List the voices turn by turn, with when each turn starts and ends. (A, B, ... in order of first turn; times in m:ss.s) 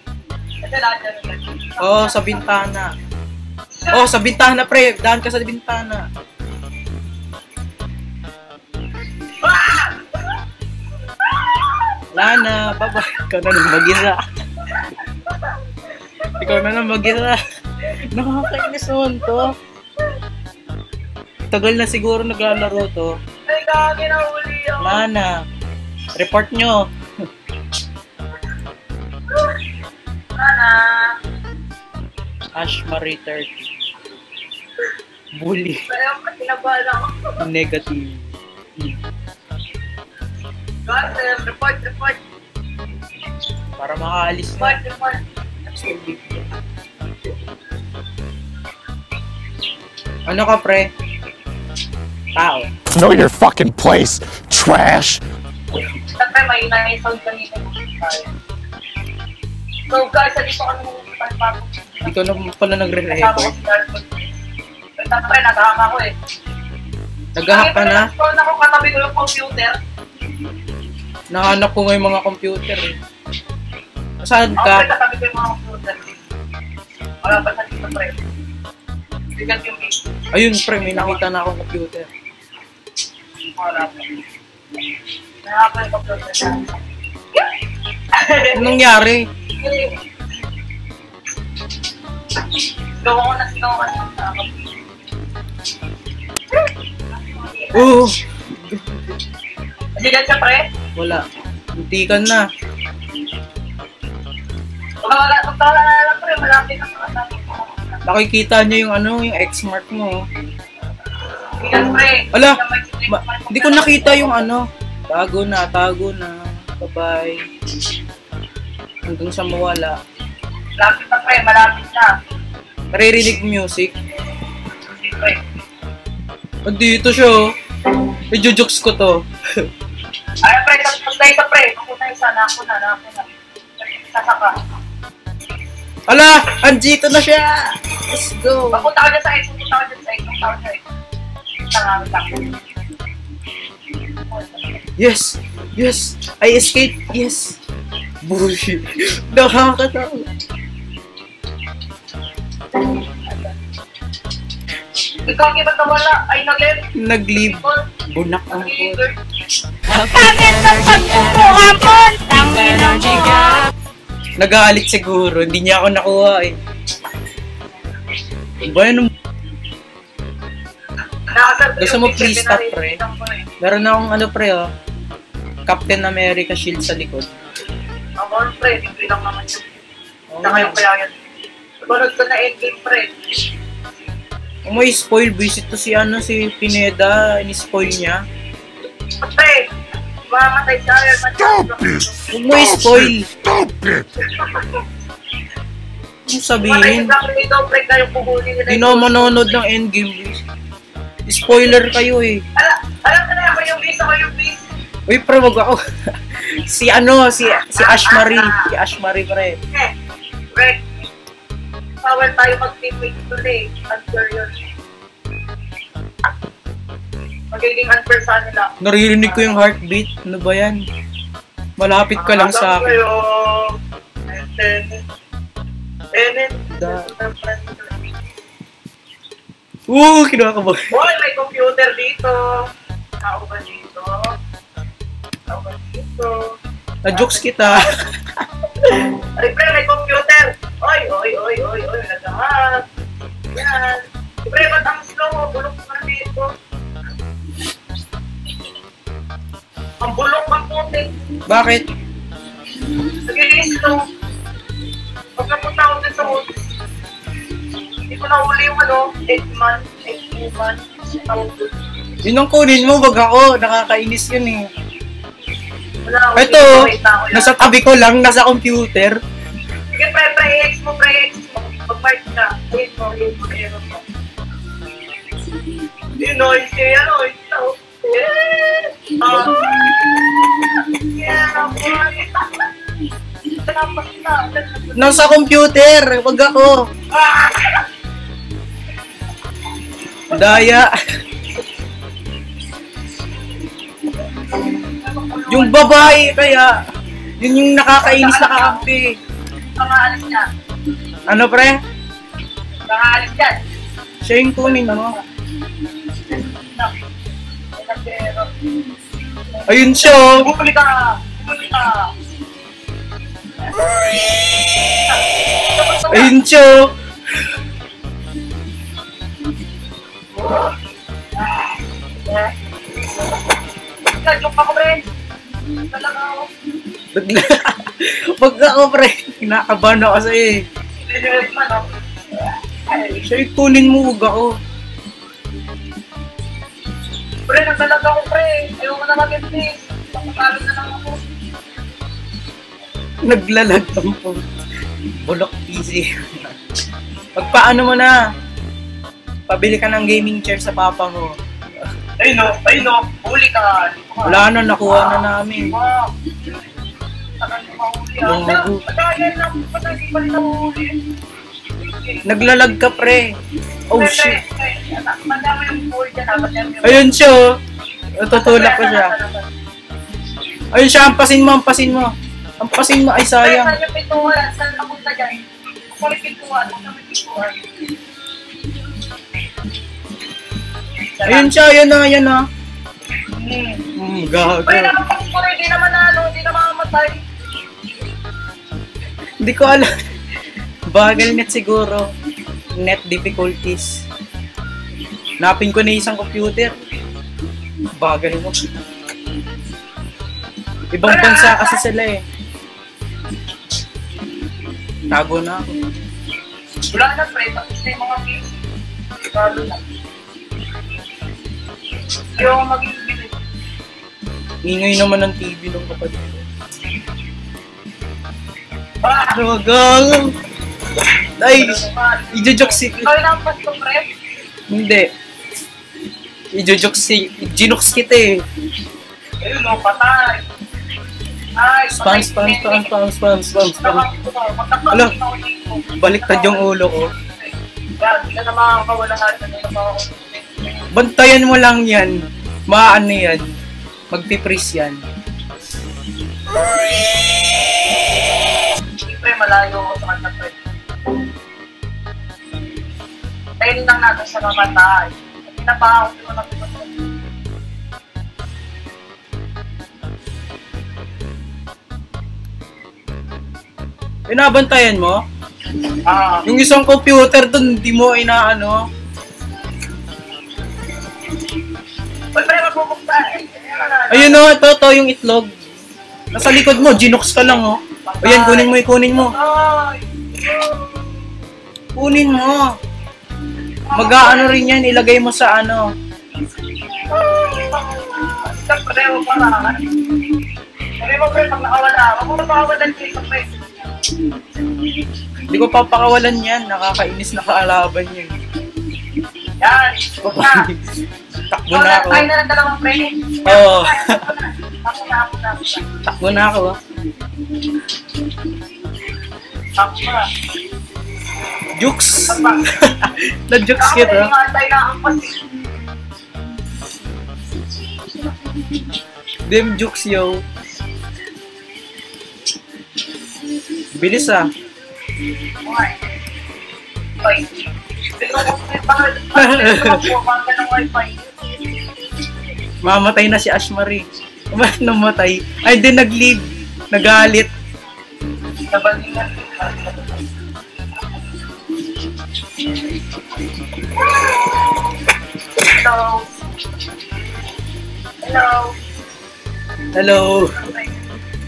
0:00.6-0:02.5 A
0:01.8-0:02.9 B
0:03.7-0:04.0 A
0:03.9-0:06.1 B
0:09.4-0:10.4 A
0:11.2-0:12.1 A
0:12.1-0:14.2 B
0:14.7-0:15.6 A
0:16.4-0:19.5 B
0:21.5-0:23.1 B
0:23.5-0:25.1 A
0:24.8-0:25.3 B
0:26.2-0:26.9 B
0:29.3-0:29.6 A
0:30.4-0:31.2 A
0:32.6-0:33.6 B
0:35.4-0:35.8 B
0:35.9-0:37.4 A
0:37.4-0:38.2 B
0:40.9-0:42.2 A
0:43.8-0:44.8 B
0:44.6-0:45.2 A
0:45.7-0:46.5 B
0:50.3-0:50.9 B
0:52.4-0:52.7 B
0:52.9-0:55.2 C
0:56.2-0:58.3 A
0:59.9-1:02.5 A
1:02.1-1:03.5 B
1:03.1-1:04.3 A
1:05.0-1:06.1 A
1:07.4-1:08.1 B
1:07.5-1:09.8 A
1:11.3-1:13.0 B
1:14.2-1:14.9 B
1:14.6-1:16.2 A
1:17.2-1:18.2 A
1:19.3-1:20.0 A
1:20.3-1:22.1 B
1:20.8-1:21.2 A
1:23.6-1:24.2 A
1:25.4-1:26.8 A
1:28.1-1:28.8 A
1:28.5-1:29.3 B
1:29.6-1:30.0 A
1:33.0-1:34.6 A
1:37.1-1:37.9 A
1:37.7-1:39.0 B
1:40.0-1:40.6 A
1:41.0-1:41.2 B
1:41.8-1:42.4 B
1:45.0-1:48.0 A
1:48.1-1:50.2 B
1:51.6-1:54.5 A
1:52.3-1:57.4 B
1:59.1-2:00.0 B
2:00.8-2:02.1 A
2:02.9-2:03.9 B
2:04.9-2:05.4 A
2:06.6-2:07.4 B
2:08.3-2:09.6 B
2:10.4-2:13.3 A
2:13.8-2:14.5 A
2:16.1-2:18.9 B
2:18.7-2:20.8 A
2:21.7-2:22.6 A
2:24.3-2:24.8 A
2:25.0-2:27.6 B
2:28.2-2:30.3 B
2:32.8-2:33.6 A
2:35.3-2:37.8 A
2:37.0-2:39.1 B
2:38.5-2:39.2 A
2:40.1-2:43.7 D
2:44.4-2:46.6 B
2:48.6-2:49.1 B
2:51.3-2:53.5 A
2:51.8-2:53.0 B
2:53.6-2:54.7 B
2:55.7-2:57.3 B
2:58.2-2:59.8 A
3:00.3-3:00.8 B
3:00.4-3:01.2 A
3:01.8-3:03.2 A
3:04.7-3:08.2 B
3:09.2-3:09.6 A
3:10.3-3:12.3 A
3:12.3-3:13.3 B
3:12.6-3:14.1 C
3:14.3-3:14.8 A
3:16.3-3:17.2 B
3:16.6-3:19.6 A
3:18.7-3:20.4 B
3:21.3-3:22.4 B
3:22.6-3:24.7 A
3:25.1-3:29.6 B
3:27.8-3:28.7 A
3:30.5-3:31.0 A
3:32.0-3:34.7 A
3:37.5-3:38.7 A
3:38.8-3:40.8 B
3:39.2-3:39.5 A
3:41.8-3:43.0 B
3:42.2-3:43.8 A
3:44.3-3:45.0 A
3:46.1-3:48.0 A
3:46.7-3:47.1 B
3:49.9-3:50.8 B
3:50.9-3:52.7 A
3:53.2-3:54.4 A
3:55.5-3:56.5 A
3:57.0-3:57.9 B
3:57.1-3:57.9 A
3:58.9-4:02.8 A
4:03.5-4:06.5 A
4:10.0-4:11.2 A
4:11.5-4:11.9 B
4:13.3-4:14.0 A
4:15.4-4:16.6 A
4:18.1-4:21.8 A
4:22.2-4:24.7 B
4:26.0-4:27.6 A
4:26.4-4:29.2 B
4:30.0-4:34.0 A
4:36.2-4:42.7 A
4:39.3-4:39.5 B
4:43.5-4:45.2 A
4:45.0-4:46.8 B
4:47.1-4:47.9 A
4:50.3-4:50.9 B
4:54.8-4:56.4 A
4:55.5-4:56.8 B
4:57.4-4:59.1 B
4:58.0-4:58.9 A
4:59.8-5:00.5 A
5:01.3-5:01.8 B
5:02.9-5:03.6 A
5:04.2-5:05.2 B
5:04.6-5:05.2 A
5:06.3-5:06.9 A
5:07.8-5:08.6 A
5:09.7-5:10.4 B
5:09.8-5:12.1 A
5:13.6-5:16.3 A
5:16.1-5:16.9 B
5:21.4-5:22.5 A
5:24.1-5:25.0 A
5:25.8-5:26.5 A
5:27.1-5:30.6 B
5:31.0-5:31.9 A
5:32.9-5:33.2 A
5:33.1-5:34.5 B
5:37.5-5:41.2 A
5:43.2-5:44.4 B
5:45.2-5:46.5 B
5:47.4-5:48.2 B
5:49.5-5:51.4 B
5:52.2-5:56.1 A
5:54.3-5:55.7 B
5:57.4-6:01.0 A
5:58.2-5:58.8 B
6:01.8-6:02.5 A
6:02.2-6:03.3 B
6:03.9-6:04.4 B
6:03.9-6:07.1 A
6:06.8-6:07.6 B
6:08.2-6:09.1 B
6:08.3-6:09.5 A
6:10.7-6:13.8 B
6:13.4-6:15.4 A
6:15.9-6:17.6 A
6:21.0-6:21.5 A
6:21.3-6:22.4 B
6:23.4-6:23.9 A
6:24.0-6:25.0 B
6:24.6-6:27.2 A
6:29.4-6:29.9 B
6:30.9-6:32.1 B
6:32.8-6:34.0 B
6:35.4-6:36.7 B
6:38.0-6:38.6 B
6:40.9-6:42.2 B
6:41.0-6:41.8 A
6:45.1-6:45.7 B
6:46.9-6:48.5 A
6:49.3-6:49.8 A
6:52.3-6:53.4 A
6:54.6-6:56.4 B
6:59.0-6:59.4 A
6:59.3-7:00.4 B
7:01.4-7:01.8 B
7:01.5-7:04.1 A
7:02.3-7:03.1 B
7:04.7-7:05.1 B
7:06.5-7:08.4 B
7:09.4-7:10.5 A
7:11.6-7:12.9 A
7:11.9-7:14.1 B
7:13.8-7:20.9 A
7:16.0-7:17.1 B
7:20.9-7:23.5 B
7:24.1-7:25.0 B
7:29.0-7:30.6 A
7:33.6-7:37.0 A
7:44.3-7:45.2 B
7:46.1-7:46.5 A
7:46.5-7:48.8 B
7:52.3-7:54.4 A
7:54.1-7:55.5 B
7:56.3-7:59.3 B
7:58.1-8:00.8 A
8:02.0-8:02.7 B
8:03.9-8:04.6 A
8:03.9-8:05.8 B
8:07.1-8:09.9 A
8:11.0-8:13.5 A
8:15.5-8:18.3 B
8:19.6-8:20.7 A
8:20.2-8:20.8 B
8:21.5-8:22.3 B
8:21.7-8:25.9 A
8:23.4-8:24.2 B
8:26.0-8:26.8 B
8:29.8-8:30.3 A
8:31.8-8:34.3 B
8:32.3-8:32.6 A
8:33.8-8:35.4 A
8:39.5-8:40.4 B
8:44.0-8:44.5 B
8:45.6-8:46.0 A
8:47.2-8:51.3 A
8:49.4-8:50.1 B
8:52.8-8:57.5 B
8:58.7-9:00.2 A
9:04.0-9:04.5 A
9:05.6-9:06.3 A
9:08.2-9:08.8 A
9:09.9-9:10.5 B
9:10.6-9:11.0 A